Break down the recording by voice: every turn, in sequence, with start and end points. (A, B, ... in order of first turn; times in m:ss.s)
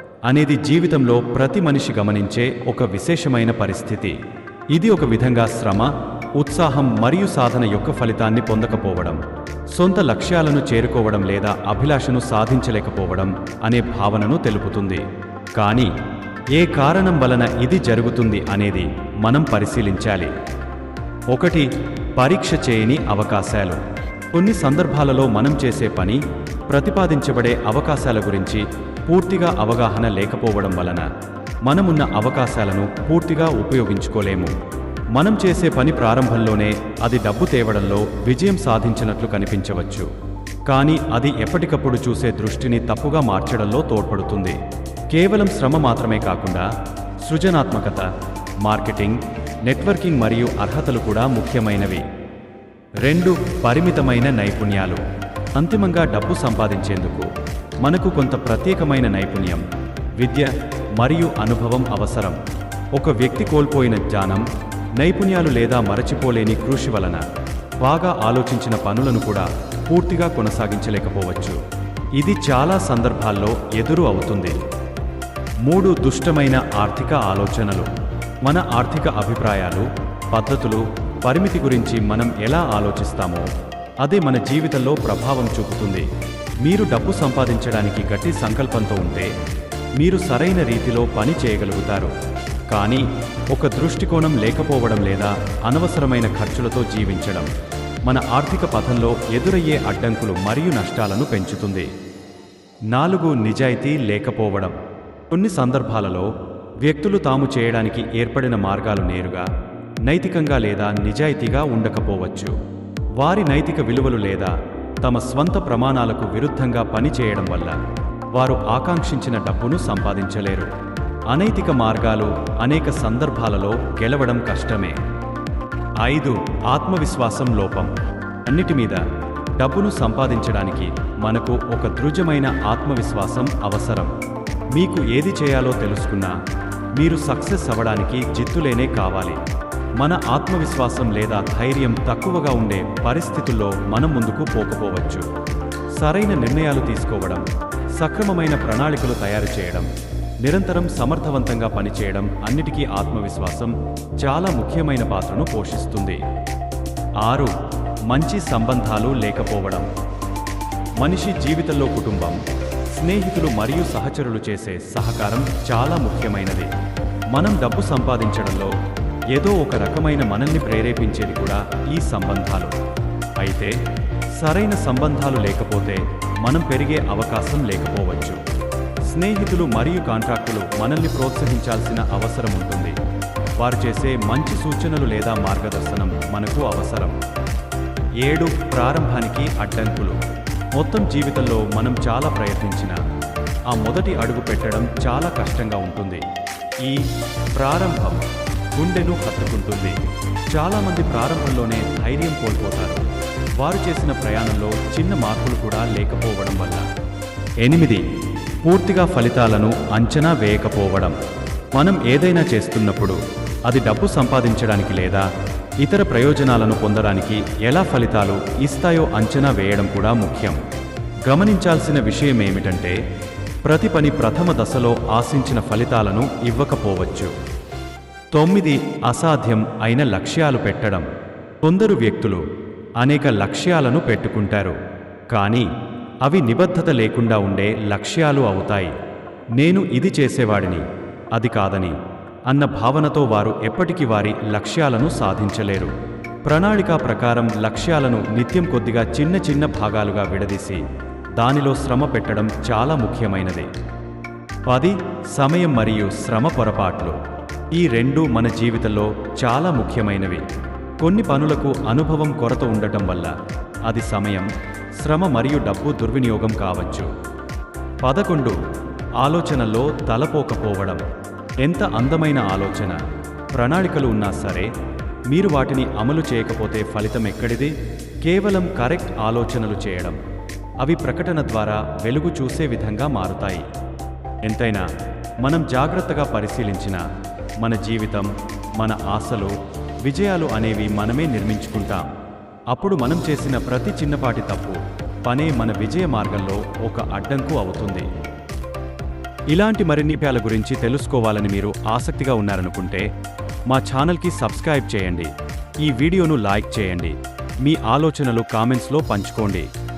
0:00.3-0:04.2 A
0:04.7-0:09.2 A
0:09.7-0:15.0 A
0:15.6-0:15.9 A
0:16.5-0:20.3 A
0:21.3-0:23.8 A
0:24.3-0:31.1 A
0:31.6-0:34.5 A
0:35.2-0:40.1 A
0:40.7-0:44.6 A
0:45.1-0:46.7 A
0:47.2-0:48.1 A
0:48.6-0:52.0 A
0:53.0-0:55.0 A
0:55.6-0:57.3 A
0:57.8-0:59.7 A
1:00.2-1:02.4 A
1:03.0-1:07.2 A
1:07.8-1:11.6 A
1:12.2-1:14.6 A
1:15.6-1:17.9 A
1:18.4-1:23.5 A
1:24.0-1:26.1 A
1:26.6-1:29.3 A
1:30.0-1:32.1 A
1:32.7-1:37.5 A
1:38.0-1:41.9 A
1:42.9-1:44.8 A
1:45.3-1:46.3 A
1:46.8-1:49.5 A
1:50.0-1:52.6 A
1:53.2-1:57.8 A
1:58.3-2:00.7 A
2:01.3-2:05.0 A
2:06.0-2:07.9 A
2:08.4-2:09.0 A
2:09.6-2:14.1 A
2:14.8-2:16.4 A
2:17.0-2:19.4 A
2:20.0-2:25.3 A
2:26.0-2:29.9 A
2:30.4-2:36.2 A
2:37.2-2:37.5 A
2:38.1-2:39.9 A
2:41.0-2:42.4 A
2:42.9-2:46.7 A
2:47.3-2:48.8 A
2:49.3-2:52.8 A
2:53.4-2:53.8 A
2:54.4-2:58.4 A
2:59.1-3:03.0 A
3:03.6-3:07.2 A
3:08.2-3:10.2 A
3:10.8-3:13.0 A
3:13.7-3:16.2 A
3:16.8-3:20.0 A
3:20.5-3:23.0 A
3:23.6-3:26.9 A
3:27.6-3:28.0 A
3:28.6-3:31.2 A
3:31.7-3:35.3 A
3:35.8-3:40.6 A
3:41.3-3:43.0 A
3:43.6-3:47.3 A
3:48.3-3:51.1 A
3:51.6-3:52.4 A
3:53.0-3:54.8 A
3:55.3-3:55.7 A
3:56.2-3:59.0 A
3:59.6-4:05.9 A
4:06.4-4:10.8 A
4:11.4-4:13.7 A
4:14.7-4:17.2 A
4:17.7-4:20.4 A
4:21.0-4:23.3 A
4:23.8-4:27.1 A
4:28.0-4:28.6 A
4:29.2-4:31.0 A
4:31.6-4:33.0 A
4:33.5-4:34.7 A
4:35.3-4:40.2 A
4:40.8-4:43.7 A
4:44.4-4:44.9 A
4:45.4-4:47.0 A
4:47.6-4:49.5 A
4:50.0-4:52.1 A
4:52.7-4:58.1 A
4:59.5-5:03.1 A
5:03.7-5:09.7 A